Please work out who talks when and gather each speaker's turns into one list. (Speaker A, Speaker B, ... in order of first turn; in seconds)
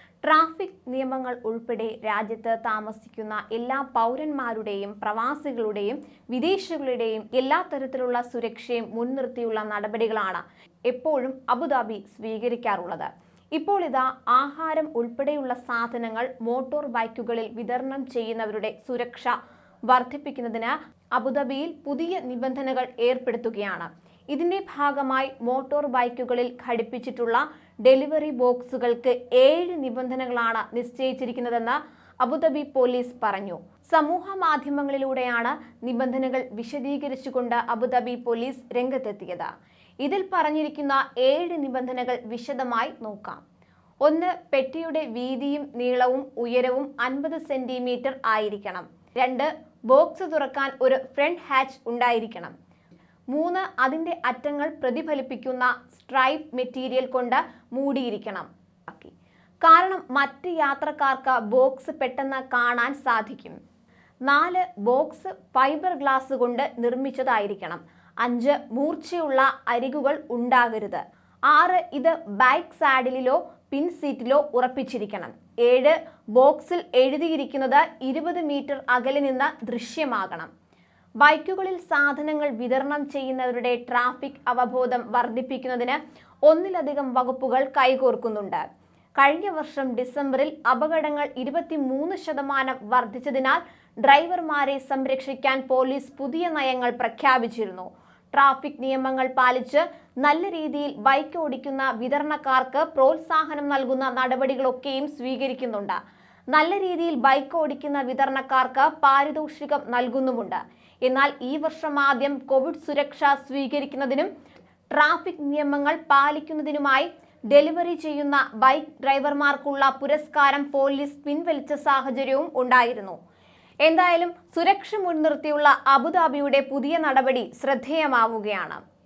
Speaker A: 0.2-19.4, 19.9-39.5, 40.0-43.4, 44.0-52.5, 53.3-63.6, 64.3-80.5, 81.2-88.7, 89.2-106.0, 106.5-114.3, 114.9-123.2, 123.8-128.8